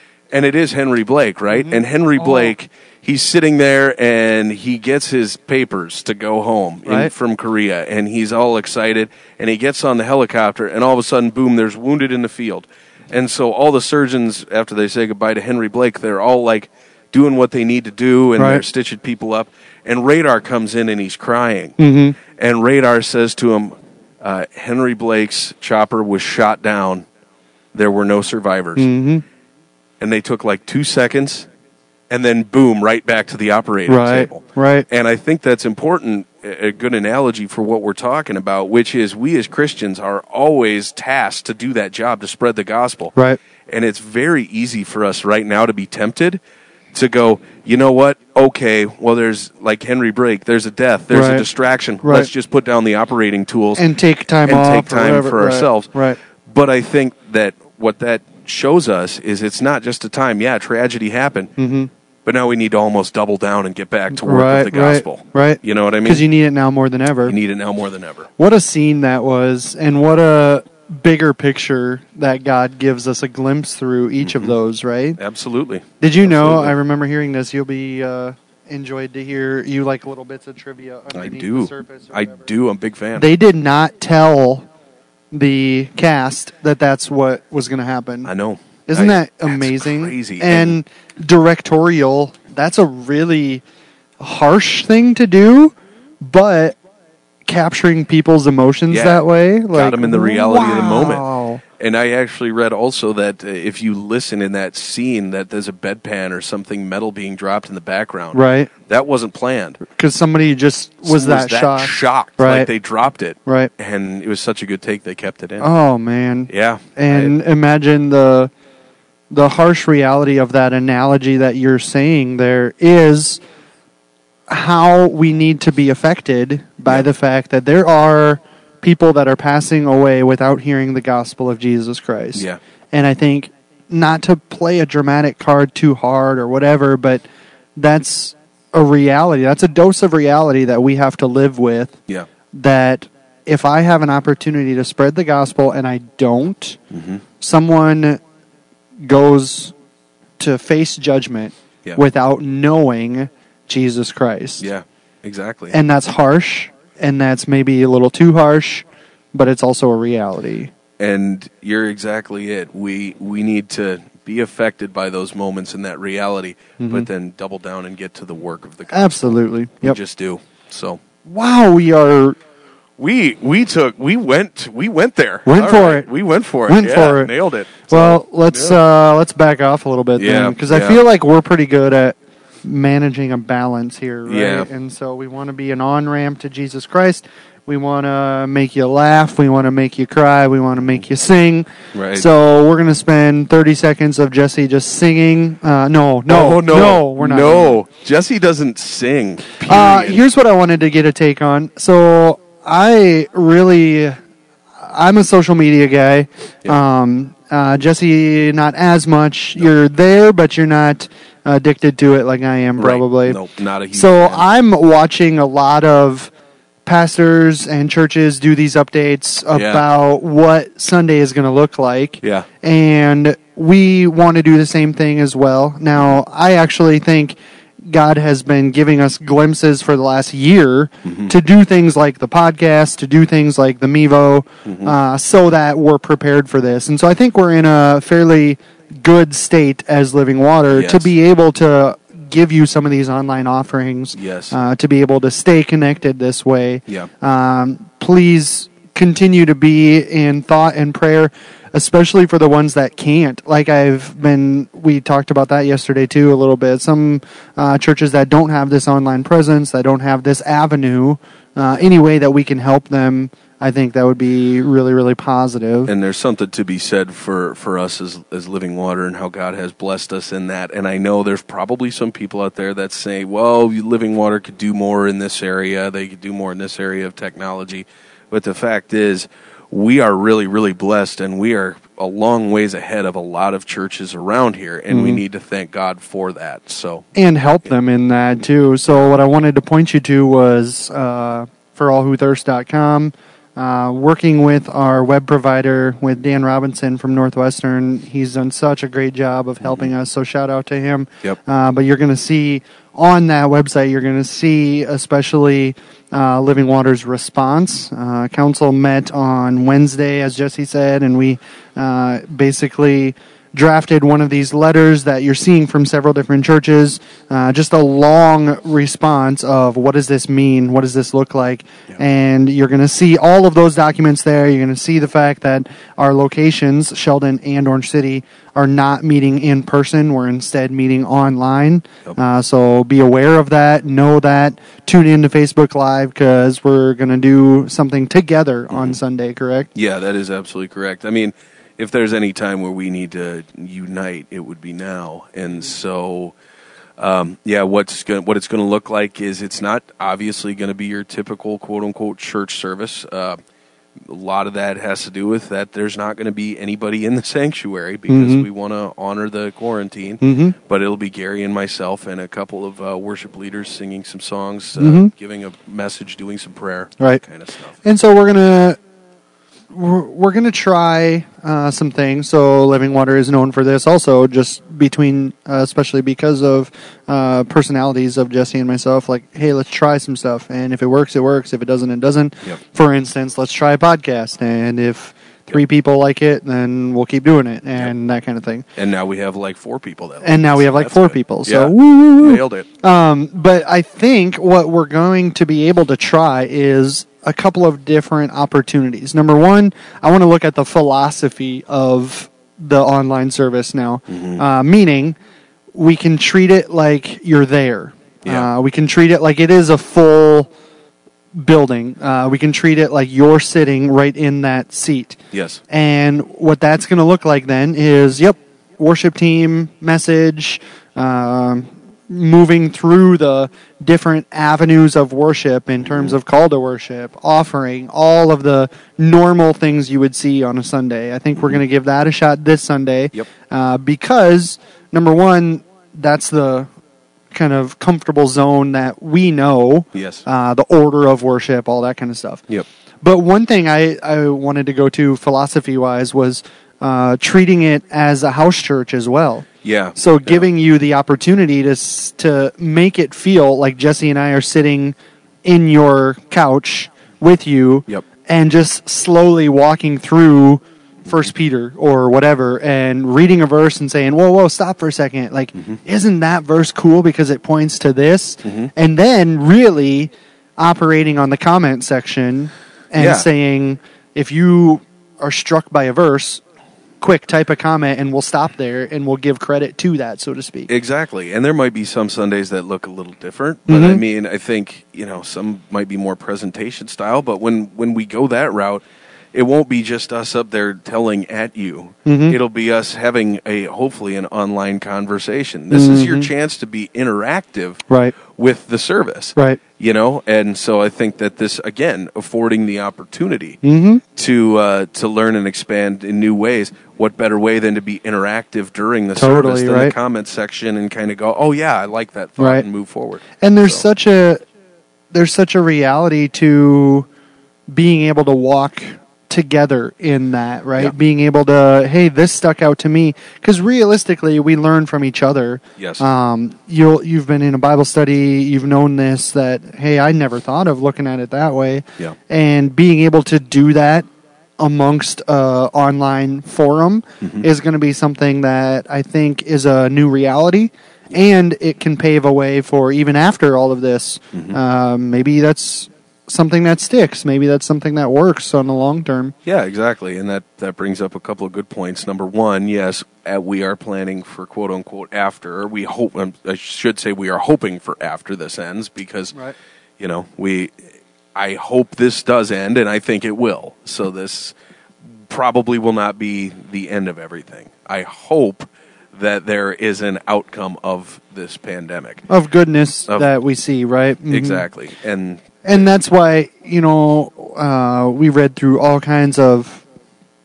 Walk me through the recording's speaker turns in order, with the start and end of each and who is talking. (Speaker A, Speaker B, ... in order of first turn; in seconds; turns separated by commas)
Speaker A: 0.3-27.1, Speaker B: 1.6-2.5, Speaker B: 6.9-7.1, Speaker B: 18.4-18.6, Speaker B: 21.8-22.2, Speaker A: 27.7-28.9, Speaker B: 28.8-29.2, Speaker A: 30.0-31.5, Speaker A: 32.1-43.1, Speaker B: 33.9-34.9, Speaker A: 43.7-46.4, Speaker A: 46.9-53.9, Speaker B: 51.1-51.5, Speaker B: 52.0-52.3, Speaker B: 53.8-56.2, Speaker A: 54.5-55.9, Speaker A: 56.4-61.5, Speaker B: 61.6-61.9, Speaker A: 62.2-66.2, Speaker B: 64.2-67.4, Speaker A: 67.3-68.3, Speaker B: 68.4-75.2, Speaker A: 74.2-74.6, Speaker A: 75.2-76.8, Speaker B: 76.0-82.3, Speaker A: 81.1-83.3, Speaker B: 83.2-84.7, Speaker B: 85.3-88.3, Speaker A: 88.2-90.8, Speaker B: 88.9-93.6, Speaker B: 94.2-96.8, Speaker B: 97.5-101.6, Speaker A: 98.9-101.3, Speaker A: 101.8-109.8, Speaker B: 108.3-108.7, Speaker B: 109.9-112.7, Speaker A: 111.0-115.7, Speaker B: 113.5-113.7, Speaker B: 115.6-118.5, Speaker A: 116.5-117.3, Speaker B: 119.3-123.4, Speaker B: 124.5-137.2, Speaker B: 137.8-142.0, Speaker B: 142.5-146.8, Speaker A: 146.9-147.2, Speaker B: 147.4-148.2, Speaker B: 149.0-149.7, Speaker B: 150.4-154.7, Speaker A: 154.6-155.8, Speaker B: 155.7-160.7, Speaker A: 161.0-169.2, Speaker B: 166.8-167.1, Speaker B: 168.9-170.0, Speaker A: 169.8-171.0, Speaker B: 171.2-172.4, Speaker A: 173.0-178.8, Speaker B: 175.5-176.1, Speaker B: 176.7-177.3, Speaker B: 177.9-197.8, Speaker A: 180.2-181.0, Speaker A: 184.3-184.7, Speaker A: 191.9-192.3, Speaker A: 196.3-200.2, Speaker B: 199.7-204.2, Speaker B: 204.8-213.4, Speaker A: 212.8-214.4, Speaker B: 213.9-216.3, Speaker B: 216.9-227.4, Speaker A: 219.5-219.8, Speaker A: 222.2-222.5, Speaker B: 227.9-265.9, Speaker A: 231.1-231.3, Speaker A: 234.7-234.9, Speaker A: 240.7-241.1, Speaker A: 244.2-244.6, Speaker A: 265.9-287.1, Speaker B: 284.9-285.2, Speaker B: 287.1-339.7, Speaker A: 338.7-339.0, Speaker A: 339.8-346.4, Speaker A: 347.0-353.4, Speaker A: 354.0-367.8, Speaker B: 358.1-358.5, Speaker B: 360.2-360.6, Speaker B: 364.8-365.1, Speaker B: 367.8-368.8, Speaker B: 369.7-388.7, Speaker A: 388.8-392.7, Speaker B: 390.2-405.2, Speaker A: 404.1-404.4, Speaker B: 405.7-410.5, Speaker A: 408.2-408.5, Speaker B: 411.3-436.7, Speaker A: 415.3-415.6, Speaker B: 437.3-442.4, Speaker A: 439.9-440.2, Speaker B: 443.0-476.4, Speaker A: 449.6-450.5, Speaker A: 468.4-468.7, Speaker A: 473.0-473.3, Speaker B: 477.0-480.7, Speaker A: 480.7-503.6, Speaker B: 483.7-484.0, Speaker B: 492.1-492.4, Speaker B: 495.7-496.3, Speaker B: 497.9-498.1, Speaker B: 503.6-504.0, Speaker A: 504.1-513.8, Speaker B: 509.2-509.9, Speaker B: 512.4-512.6, Speaker B: 513.4-514.4, Speaker B: 515.1-517.1, Speaker B: 517.7-534.1, Speaker A: 525.8-526.0, Speaker B: 534.6-549.3, Speaker A: 549.5-559.3, Speaker A: 560.0-560.8, Speaker A: 561.4-564.5, Speaker A: 565.3-572.2, Speaker B: 572.3-574.7, Speaker A: 574.3-575.9, Speaker B: 575.6-579.8